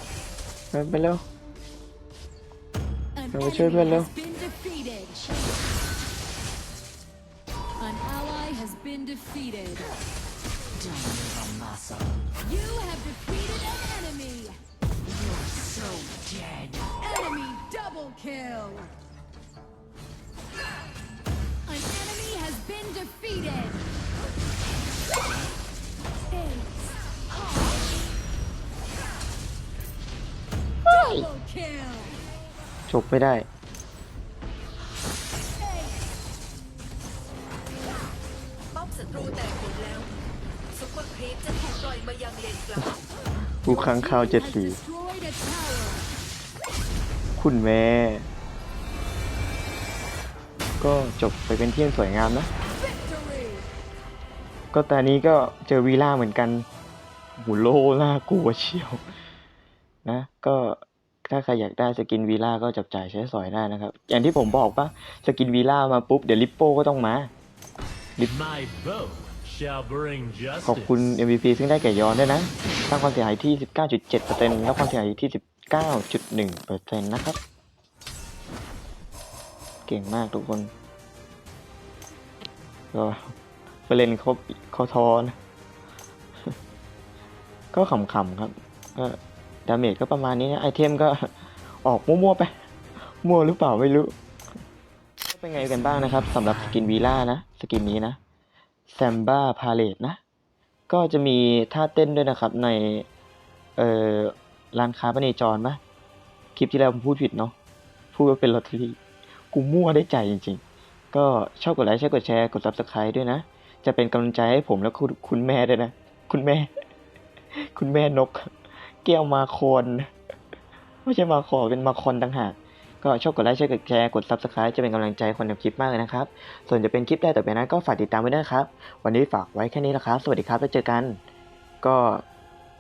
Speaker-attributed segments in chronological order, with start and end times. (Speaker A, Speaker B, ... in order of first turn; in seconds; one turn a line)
Speaker A: 0.7-1.2
Speaker B: 3.2-5.2
Speaker A: 3.3-4.1
Speaker C: 5.2-5.6
Speaker B: 7.8-9.9
Speaker C: 10.8-12.3
Speaker B: 12.4-14.6
Speaker C: 15.0-17.1
Speaker B: 17.0-18.9
Speaker B: 21.7-23.8
Speaker B: 26.3-27.6
Speaker B: 30.9-32.2
Speaker A: 30.9-31.3
Speaker A: 32.9-33.5
Speaker B: 35.6-36.0
Speaker D: 38.8-40.1
Speaker D: 40.7-42.8
Speaker A: 43.5-44.8
Speaker B: 43.7-46.1
Speaker A: 47.4-48.3
Speaker A: 50.8-52.5
Speaker B: 52.8-53.7
Speaker A: 54.7-56.7
Speaker A: 57.4-59.0
Speaker A: 60.0-67.3
Speaker E: 68.2-71.1
Speaker A: 70.7-77.4
Speaker A: 79.9-80.7
Speaker A: 82.9-83.3
Speaker A: 83.9-85.4
Speaker A: 87.7-91.3
Speaker A: 91.8-92.5
Speaker A: 93.2-94.1
Speaker A: 95.3-98.2
Speaker A: 98.9-100.2
Speaker A: 100.9-103.1
Speaker A: 103.8-105.8
Speaker A: 106.6-107.5
Speaker A: 108.1-109.0
Speaker A: 109.5-116.7
Speaker A: 117.6-118.5
Speaker A: 119.0-120.1
Speaker A: 121.0-131.2
Speaker A: 131.8-132.2